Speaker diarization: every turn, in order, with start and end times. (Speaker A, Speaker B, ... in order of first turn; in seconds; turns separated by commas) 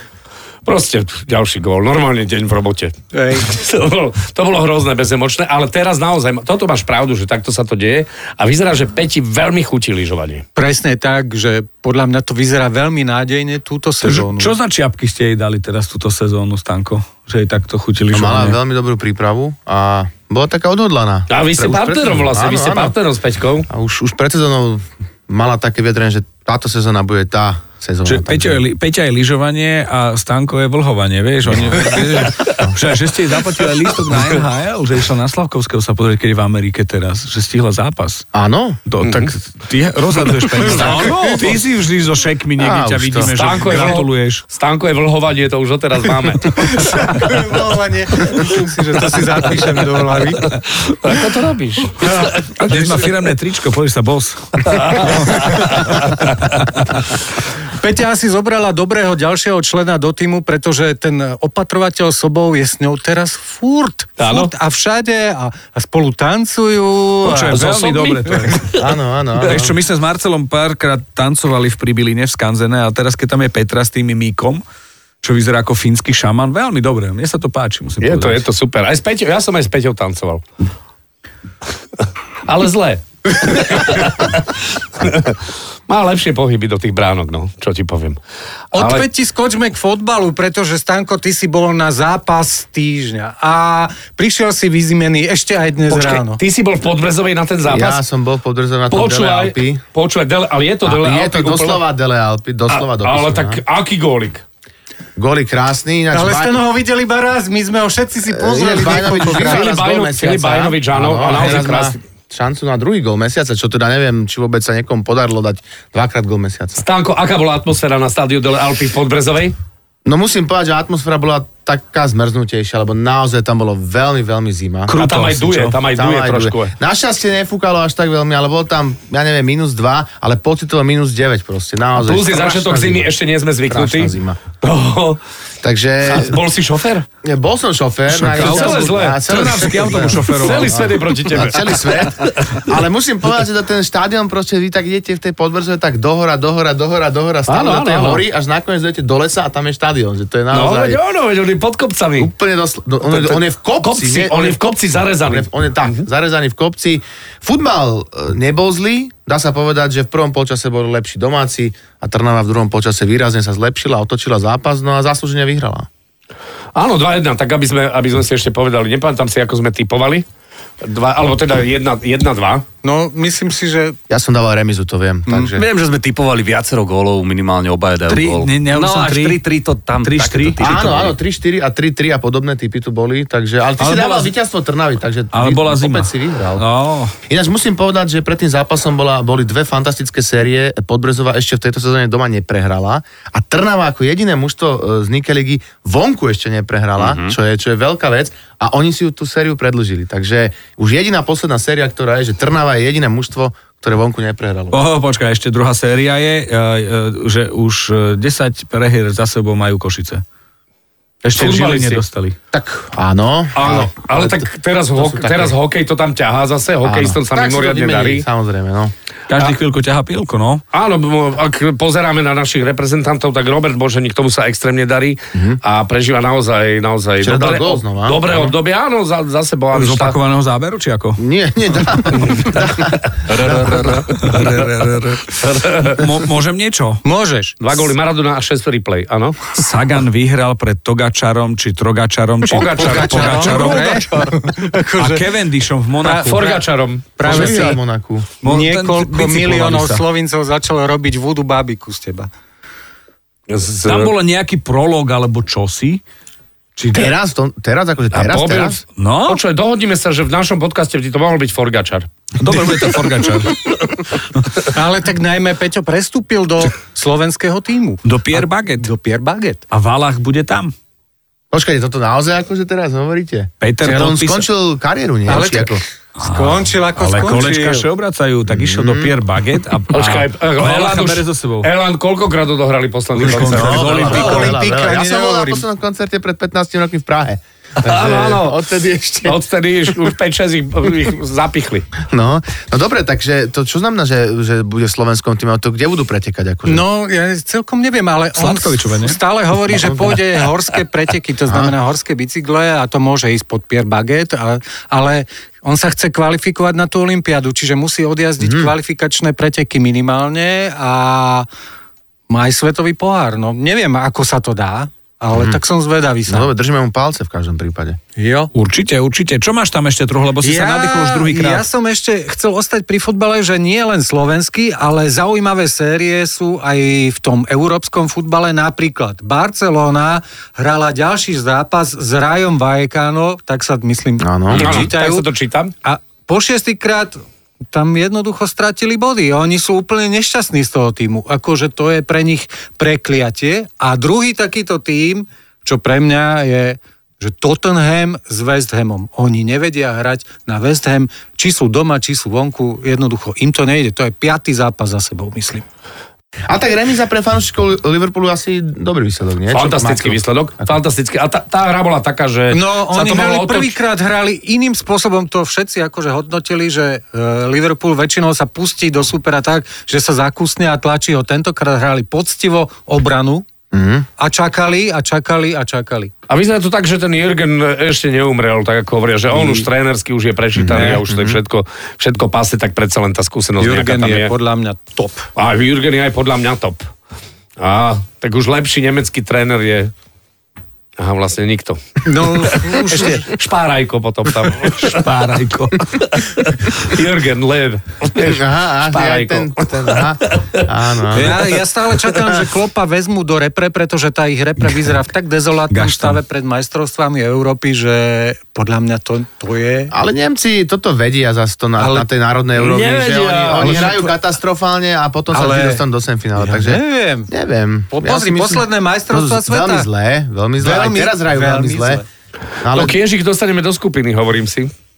Speaker A: 0.6-10.4, Speaker B: 3.1-3.5, Speaker B: 10.5-14.5, Speaker C: 14.0-18.6, Speaker D: 18.1-22.9, Speaker A: 21.3-23.7, Speaker D: 23.7-28.6, Speaker C: 28.1-38.3, Speaker D: 31.5-31.9, Speaker D: 38.3-38.8, Speaker C: 38.9-44.4, Speaker A: 39.0-39.3, Speaker B: 40.6-41.4, Speaker D: 42.6-43.6, Speaker A: 43.2-46.7, Speaker B: 46.6-50.5, Speaker A: 51.0-52.8, Speaker B: 52.0-52.9, Speaker C: 52.5-56.2, Speaker A: 54.6-56.6, Speaker B: 57.7-67.6, Speaker A: 64.2-64.5, Speaker C: 67.2-68.8, Speaker A: 67.5-68.9, Speaker D: 68.8-69.7, Speaker C: 69.4-74.6, Speaker C: 75.2-78.4, Speaker A: 78.0-80.4, Speaker A: 82.4-88.2, Speaker B: 88.7-96.4, Speaker A: 88.8-89.0, Speaker A: 95.9-98.0, Speaker D: 97.7-99.8, Speaker A: 98.9-101.8, Speaker D: 100.8-103.6, Speaker A: 102.7-104.4, Speaker D: 105.2-106.6, Speaker B: 106.1-109.6, Speaker D: 108.3-116.8, Speaker A: 109.3-112.0, Speaker A: 116.8-119.5, Speaker D: 120.0-124.9, Speaker C: 124.9-125.8, Speaker A: 125.0-126.7, Speaker D: 125.9-133.1, Speaker A: 132.0-135.2, Speaker D: 133.7-134.4, Speaker D: 135.6-136.4, Speaker A: 136.0-137.1, Speaker D: 137.2-151.0, Speaker A: 138.2-142.7, Speaker C: 138.2-140.9, Speaker A: 147.5-148.2, Speaker A: 150.5-152.3, Speaker D: 152.2-154.7, Speaker A: 153.1-156.0, Speaker D: 155.2-165.9, Speaker A: 166.7-170.2, Speaker A: 170.8-172.6, Speaker B: 172.8-174.0, Speaker D: 174.1-175.6, Speaker E: 175.5-181.2, Speaker C: 178.1-179.4, Speaker C: 180.0-180.6, Speaker D: 180.6-186.6, Speaker C: 183.8-184.3, Speaker C: 185.3-187.1, Speaker D: 187.3-204.8, Speaker E: 197.0-197.3, Speaker C: 204.7-210.2, Speaker C: 211.2-212.3, Speaker A: 211.3-212.0, Speaker D: 212.5-215.5, Speaker A: 213.5-218.2, Speaker D: 216.8-218.9, Speaker C: 219.3-220.6, Speaker A: 220.7-230.2, Speaker D: 225.3-225.6, Speaker D: 227.2-228.5, Speaker C: 229.7-231.2, Speaker D: 231.2-233.9, Speaker A: 232.2-232.7, Speaker E: 233.3-234.3, Speaker A: 233.6-234.0, Speaker C: 234.1-237.0, Speaker A: 235.4-236.1, Speaker B: 237.0-237.6, Speaker A: 237.6-239.4, Speaker C: 239.5-246.6, Speaker A: 242.5-243.9, Speaker B: 242.5-245.3, Speaker B: 246.0-246.6, Speaker A: 246.2-247.5, Speaker B: 247.2-247.8, Speaker D: 247.2-248.3, Speaker C: 248.4-250.0, Speaker B: 248.4-252.3, Speaker A: 253.5-254.1, Speaker C: 253.8-256.0, Speaker D: 256.8-258.8, Speaker A: 258.1-262.1, Speaker C: 259.0-259.4, Speaker C: 262.4-263.6, Speaker B: 264.7-269.6, Speaker C: 268.0-268.9, Speaker C: 269.7-270.7, Speaker D: 271.5-275.8, Speaker C: 273.6-274.4, Speaker B: 273.8-274.2, Speaker B: 275.3-277.9, Speaker C: 276.2-281.7, Speaker D: 278.5-279.2, Speaker A: 279.9-284.3, Speaker C: 283.1-284.6, Speaker D: 283.4-289.4, Speaker B: 283.8-285.6, Speaker A: 287.8-288.6, Speaker A: 289.2-291.9, Speaker D: 292.1-296.8, Speaker B: 296.6-311.5, Speaker C: 298.4-299.2, Speaker D: 299.7-300.2, Speaker D: 301.5-301.7, Speaker D: 308.4-308.7, Speaker B: 312.3-316.5, Speaker D: 316.3-318.0, Speaker B: 318.2-318.5, Speaker C: 318.5-321.6, Speaker B: 320.4-335.3, Speaker D: 334.2-334.8, Speaker A: 334.5-335.7, Speaker B: 335.8-337.2, Speaker B: 337.7-355.6, Speaker D: 356.5-360.8, Speaker A: 359.5-363.8, Speaker B: 362.5-373.4, Speaker D: 373.7-374.1, Speaker B: 374.2-376.1, Speaker A: 376.3-384.3, Speaker B: 379.3-379.6, Speaker D: 380.6-381.4, Speaker B: 380.7-381.0, Speaker B: 383.6-385.3, Speaker A: 385.4-386.9, Speaker A: 387.6-389.9, Speaker A: 391.0-395.1, Speaker B: 392.1-393.3, Speaker C: 394.8-396.0, Speaker A: 395.9-400.7, Speaker D: 398.2-401.4, Speaker B: 401.1-409.9, Speaker C: 405.7-406.2, Speaker D: 409.9-422.0, Speaker B: 411.8-412.1, Speaker A: 412.6-414.0, Speaker B: 415.3-415.8, Speaker B: 416.4-417.3, Speaker B: 417.9-419.9, Speaker B: 420.6-422.1, Speaker D: 422.6-423.0, Speaker A: 422.7-424.7